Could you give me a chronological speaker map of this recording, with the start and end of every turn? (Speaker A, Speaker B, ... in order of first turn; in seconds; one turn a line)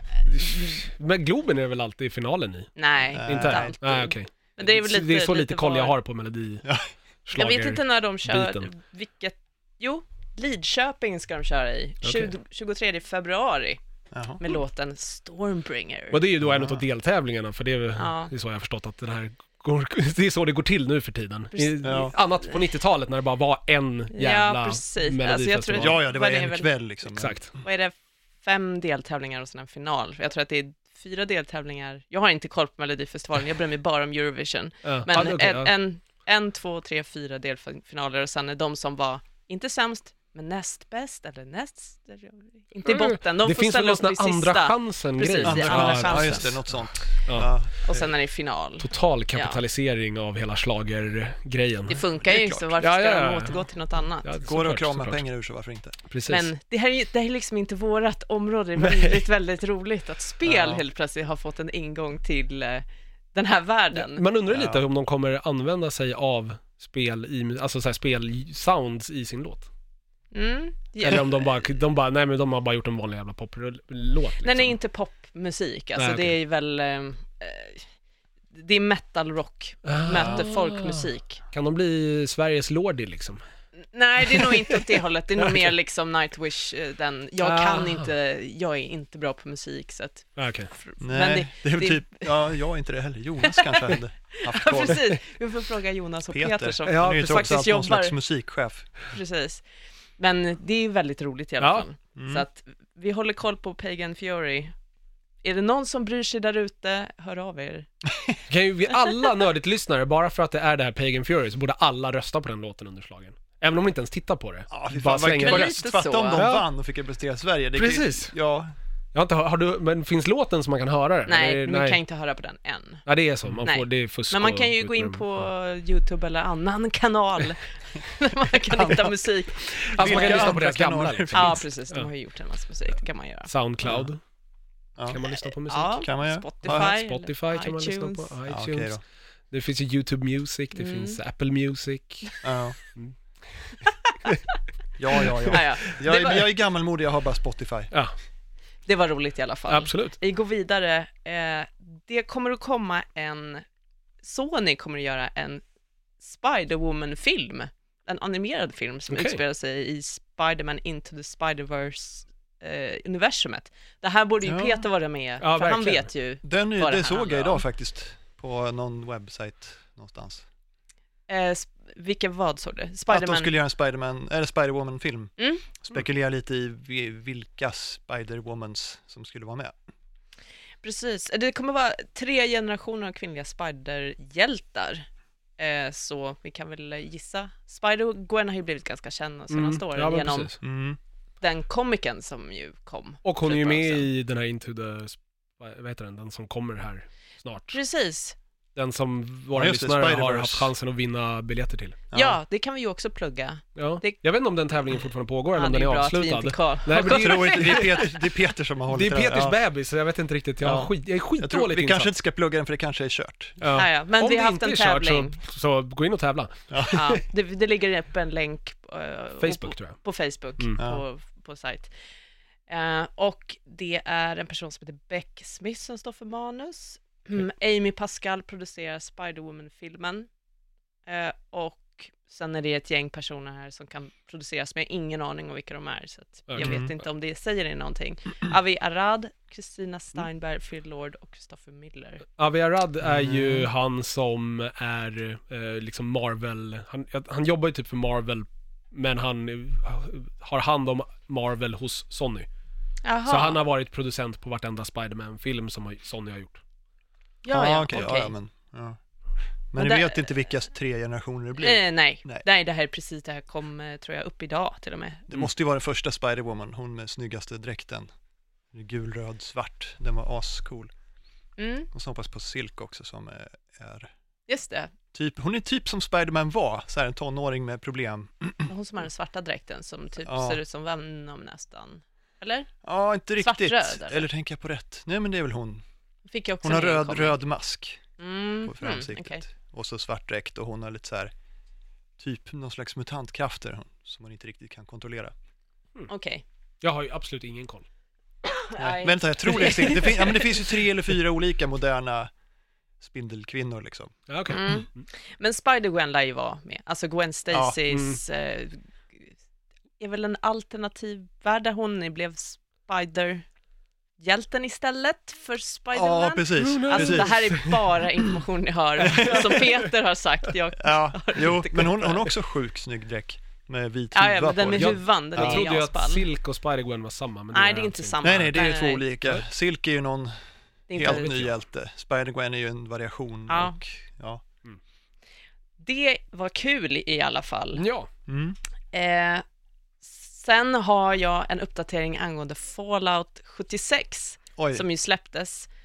Speaker A: 0.2-2.7
Speaker B: 0.4-0.8
Speaker B: 2.8-6.0
Speaker C: 3.1-3.8
Speaker A: 3.2-6.7
Speaker A: 7.3-8.7
Speaker B: 7.3-13.8
Speaker A: 12.0-12.3
Speaker C: 14.1-14.4
Speaker B: 14.4-16.2
Speaker A: 16.1-25.9
Speaker C: 16.4-16.8
Speaker B: 17.9-18.3
Speaker B: 21.5-22.6
Speaker C: 21.8-22.1
Speaker B: 24.1-26.7
Speaker C: 25.8-27.6
Speaker A: 27.2-27.5
Speaker B: 27.6-46.6
Speaker A: 34.8-35.7
Speaker A: 42.9-46.6
Speaker C: 45.4-48.1
Speaker A: 47.3-47.5
Speaker B: 47.9-49.6
Speaker A: 48.8-52.0
Speaker B: 51.9-54.4
Speaker C: 52.2-52.7
Speaker A: 52.8-53.6
Speaker A: 54.2-55.2
Speaker C: 54.4-56.0
Speaker A: 56.1-56.5
Speaker B: 56.3-64.2
Speaker A: 58.8-59.3
Speaker C: 60.5-60.8
Speaker A: 63.9-69.7
Speaker C: 64.5-64.8
Speaker B: 70.3-71.4
Speaker A: 71.0-74.8
Speaker B: 74.4-77.9
Speaker A: 76.0-76.3
Speaker B: 78.5-81.4
Speaker A: 79.8-83.4
Speaker C: 80.1-80.4
Speaker B: 83.8-92.3
Speaker A: 84.2-84.8
Speaker A: 87.4-88.1
Speaker A: 90.4-90.7
Speaker C: 91.0-95.0
Speaker B: 93.4-98.2
Speaker C: 96.3-98.9
Speaker A: 96.9-97.6
Speaker B: 99.1-99.6
Speaker B: 100.2-104.7
Speaker A: 101.6-101.8
Speaker C: 102.2-102.5
Speaker B: 105.4-107.9
Speaker A: 108.5-115.8
Speaker C: 114.7-118.7
Speaker B: 115.4-116.4
Speaker A: 116.3-116.7
Speaker A: 117.8-118.3
Speaker A: 119.1-122.0
Speaker B: 121.3-123.0
Speaker A: 123.1-125.5
Speaker B: 123.6-130.6
Speaker C: 128.7-129.2
Speaker A: 129.9-132.1
Speaker C: 129.9-131.7
Speaker B: 131.3-133.5
Speaker A: 133.5-134.2
Speaker C: 133.8-134.1
Speaker A: 135.1-136.1
Speaker B: 135.3-138.3
Speaker C: 136.0-137.0
Speaker A: 136.6-139.0
Speaker C: 138.5-139.0
Speaker A: 139.5-142.4
Speaker B: 140.8-141.2
Speaker C: 142.4-142.8
Speaker A: 143.0-143.8
Speaker B: 143.8-144.3
Speaker C: 145.0-147.9
Speaker B: 145.5-146.5
Speaker B: 148.9-153.7
Speaker A: 149.7-150.2
Speaker B: 154.2-155.6
Speaker B: 156.2-167.6
Speaker A: 159.1-159.4
Speaker C: 164.4-164.8
Speaker A: 165.4-166.1
Speaker C: 166.4-170.4
Speaker B: 171.3-173.5
Speaker C: 173.1-179.8
Speaker B: 175.4-175.7
Speaker B: 180.8-185.1
Speaker B: 185.6-190.5
Speaker A: 189.5-190.6
Speaker C: 190.6-191.0
Speaker B: 191.4-194.1
Speaker A: 193.2-197.8
Speaker B: 197.7-198.4
Speaker A: 198.8-202.0
Speaker C: 199.5-200.7
Speaker C: 202.1-202.4
Speaker B: 202.1-204.2
Speaker A: 203.8-208.1
Speaker B: 205.5-208.1
Speaker C: 207.1-209.6
Speaker A: 208.9-212.1
Speaker C: 210.6-213.6
Speaker A: 213.6-217.2
Speaker B: 213.7-215.4
Speaker C: 216.7-217.0
Speaker B: 216.9-221.9
Speaker A: 219.4-220.0
Speaker C: 220.8-221.0
Speaker B: 222.7-230.3
Speaker B: 231.1-242.2
Speaker A: 236.5-236.9
Speaker C: 236.6-236.9
Speaker A: 242.4-252.5
Speaker C: 243.1-243.7
Speaker B: 253.0-253.6
Speaker A: 253.3-256.6
Speaker B: 257.4-258.3
Speaker C: 257.5-259.0
Speaker C: 259.7-262.4
Speaker B: 259.8-260.3
Speaker B: 261.6-265.3
Speaker C: 265.3-268.1
Speaker C: 268.7-270.9
Speaker B: 271.6-271.9
Speaker C: 271.9-274.1
Speaker B: 274.5-274.9
Speaker C: 275.1-278.7
Speaker B: 278.7-282.7
Speaker C: 280.3-280.6
Speaker C: 282.8-285.8
Speaker B: 283.4-284.3
Speaker B: 286.3-287.4
Speaker C: 286.6-288.0
Speaker B: 288.2-289.4
Speaker C: 288.6-291.3
Speaker C: 292.2-295.3
Speaker B: 296.1-296.4
Speaker A: 296.8-297.9
Speaker B: 298.4-300.8
Speaker C: 298.8-302.3
Speaker C: 303.0-304.1
Speaker A: 304.3-305.1
Speaker B: 304.5-309.3
Speaker C: 307.5-307.8
Speaker A: 307.9-308.2
Speaker B: 310.0-313.4
Speaker B: 314.2-322.3
Speaker C: 315.9-317.8
Speaker A: 316.6-317.8
Speaker C: 319.1-319.5
Speaker A: 319.1-319.8
Speaker C: 320.8-325.7
Speaker B: 324.1-326.2
Speaker A: 324.8-328.6
Speaker B: 327.5-329.1
Speaker C: 328.2-330.3
Speaker B: 330.9-331.4
Speaker C: 330.9-334.4
Speaker A: 331.0-331.5
Speaker B: 333.5-333.8
Speaker B: 335.8-337.8
Speaker A: 337.8-338.1
Speaker C: 338.3-338.6
Speaker B: 338.9-339.4
Speaker B: 340.0-345.7
Speaker C: 344.6-344.9